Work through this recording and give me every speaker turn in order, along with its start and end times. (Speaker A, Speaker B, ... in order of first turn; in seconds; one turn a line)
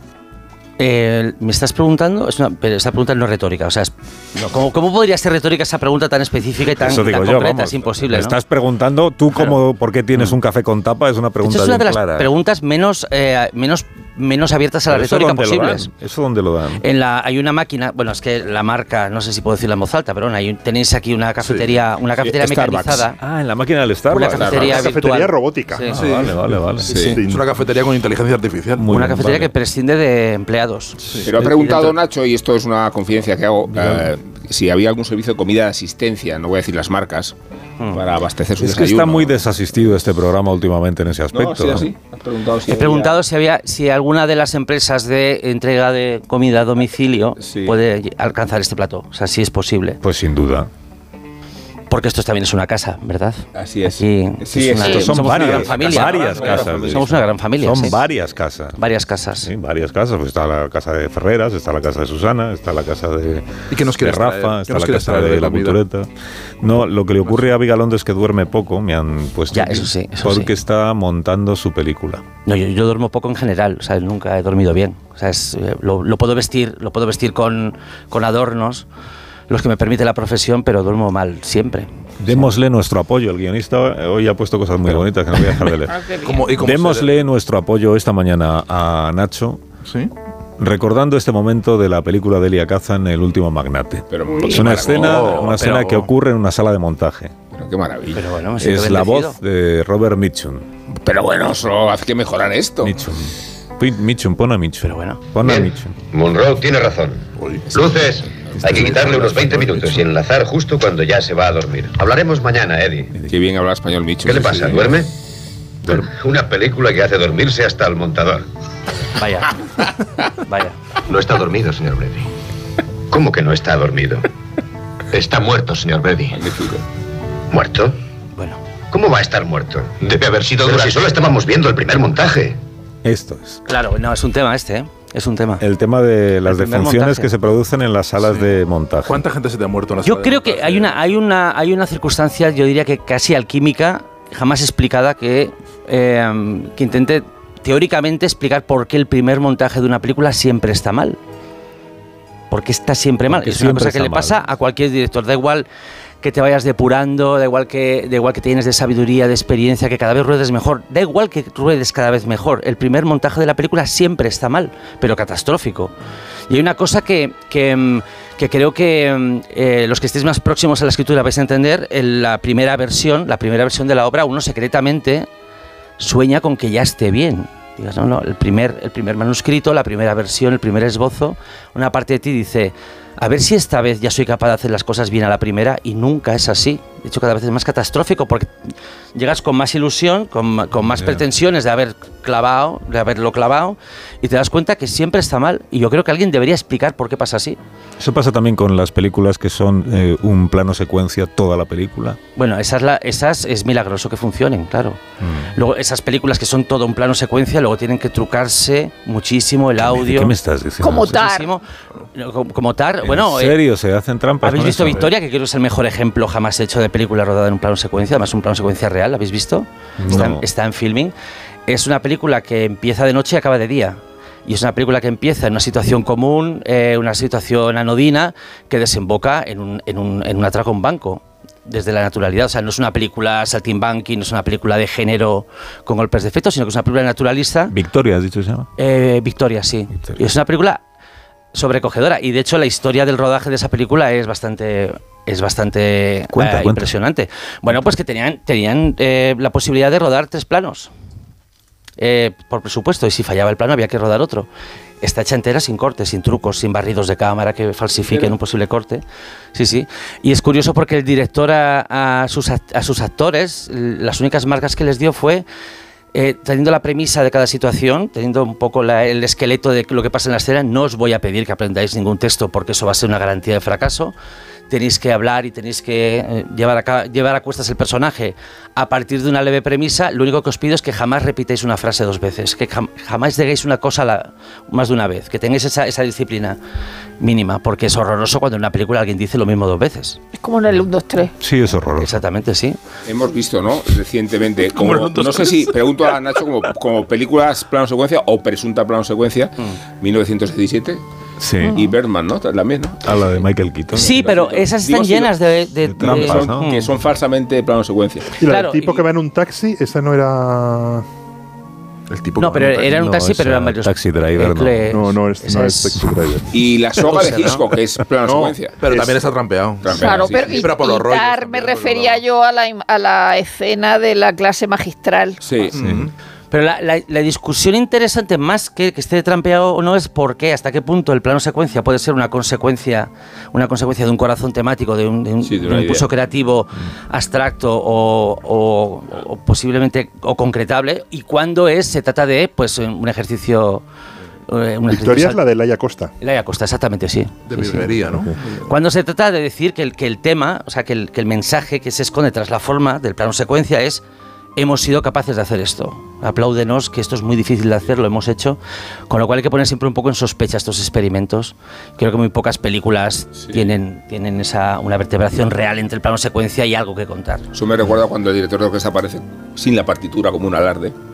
Speaker A: 0.8-8.4
Speaker B: 6.7-12.3
Speaker A: 11.4-15.9
Speaker B: 14.9-16.8
Speaker A: 16.8-23.2
Speaker C: 22.2-23.0
Speaker B: 23.2-24.6
Speaker A: 24.1-25.9
Speaker C: 24.3-24.9
Speaker D: 24.5-26.4
Speaker B: 25.9-26.9
Speaker E: 25.9-26.4
Speaker D: 26.9-27.4
Speaker C: 26.9-27.2
Speaker A: 26.9-27.2
Speaker E: 27.1-28.9
Speaker B: 28.8-29.5
Speaker A: 28.9-31.9
Speaker E: 31.0-31.3
Speaker C: 31.2-37.3
Speaker B: 33.6-34.1
Speaker C: 37.9-39.4
Speaker B: 38.6-41.9
Speaker C: 41.3-43.2
Speaker A: 42.7-50.0
Speaker C: 47.4-47.8
Speaker B: 50.0-50.7
Speaker A: 51.9-58.0
Speaker C: 53.5-57.2
Speaker B: 54.8-58.8
Speaker F: 54.8-55.1
Speaker A: 58.8-59.5
Speaker B: 59.4-66.1
Speaker E: 63.7-65.8
Speaker B: 66.6-72.2
Speaker A: 69.5-70.5
Speaker A: 72.4-78.8
Speaker A: 79.5-82.5
Speaker B: 82.2-86.0
Speaker F: 85.9-86.5
Speaker E: 86.2-87.1
Speaker B: 86.5-89.6
Speaker E: 89.8-90.1
Speaker B: 90.6-97.3
Speaker C: 94.1-95.4
Speaker F: 94.3-94.7
Speaker A: 94.9-96.1
Speaker C: 97.5-98.2
Speaker A: 98.1-99.4
Speaker B: 98.6-100.7
Speaker C: 100.9-103.0
Speaker B: 102.8-106.0
Speaker A: 104.8-105.2
Speaker G: 105.4-113.1
Speaker E: 107.4-107.7
Speaker C: 107.7-108.8
Speaker B: 108.6-108.9
Speaker E: 108.6-110.0
Speaker C: 113.3-115.0
Speaker G: 114.2-115.1
Speaker G: 115.9-118.4
Speaker A: 119.2-119.6
Speaker A: 120.4-120.8
Speaker G: 121.1-122.3
Speaker G: 123.1-124.2
Speaker G: 125.1-126.5
Speaker C: 126.3-126.8
Speaker G: 127.5-128.0
Speaker G: 128.9-132.6
Speaker B: 133.0-133.6
Speaker A: 133.7-135.6
Speaker B: 135.6-139.2
Speaker A: 136.5-137.3
Speaker E: 139.1-141.1
Speaker A: 140.0-151.2
Speaker A: 152.5-155.7
Speaker B: 153.3-154.5
Speaker A: 156.2-165.9
Speaker A: 166.5-175.3
Speaker A: 176.0-188.5
Speaker A: 189.1-197.6
Speaker B: 190.8-191.2
Speaker B: 198.0-202.2
Speaker A: 202.3-205.0
Speaker B: 205.2-205.5
Speaker A: 205.5-210.3
Speaker B: 209.8-211.2
Speaker F: 210.8-211.5
Speaker A: 211.1-211.6
Speaker A: 212.1-213.6
Speaker B: 213.0-215.1
Speaker A: 214.4-221.1
Speaker B: 220.0-220.4
Speaker A: 221.7-237.7
Speaker B: 237.7-238.7
Speaker A: 238.8-240.8
Speaker A: 241.5-250.9
Speaker B: 246.3-246.9
Speaker A: 252.0-254.5
Speaker A: 255.0-265.4
Speaker C: 258.0-258.4
Speaker A: 266.1-274.1
Speaker A: 274.7-286.6
Speaker A: 287.2-290.2
Speaker F: 290.3-291.3
Speaker B: 291.4-292.2
Speaker A: 292.0-292.8
Speaker C: 293.1-301.0
Speaker E: 294.8-296.0
Speaker B: 301.4-301.8
Speaker F: 301.6-301.9
Speaker C: 301.7-303.1
Speaker B: 303.0-304.3
Speaker A: 303.9-306.9
Speaker C: 304.0-305.3
Speaker B: 305.9-306.7
Speaker C: 306.0-308.3
Speaker D: 308.3-311.0
Speaker A: 308.4-309.1
Speaker E: 312.1-312.9
Speaker A: 312.4-316.0
Speaker B: 312.6-314.9
Speaker D: 314.9-316.5
Speaker C: 316.5-319.2
Speaker A: 317.1-317.6
Speaker D: 318.3-318.5
Speaker E: 318.8-322.2
Speaker C: 319.8-320.7
Speaker F: 319.9-325.4
Speaker C: 325.4-325.8
Speaker E: 325.7-326.1
Speaker B: 325.7-326.1
Speaker A: 326.5-343.8
Speaker C: 335.4-336.1
Speaker A: 344.5-345.4
Speaker D: 344.9-346.1
Speaker A: 346.2-347.9
Speaker E: 347.4-348.3
Speaker D: 348.1-348.3
Speaker A: 348.6-354.0
Speaker A: 354.6-367.5
Speaker C: 367.5-370.9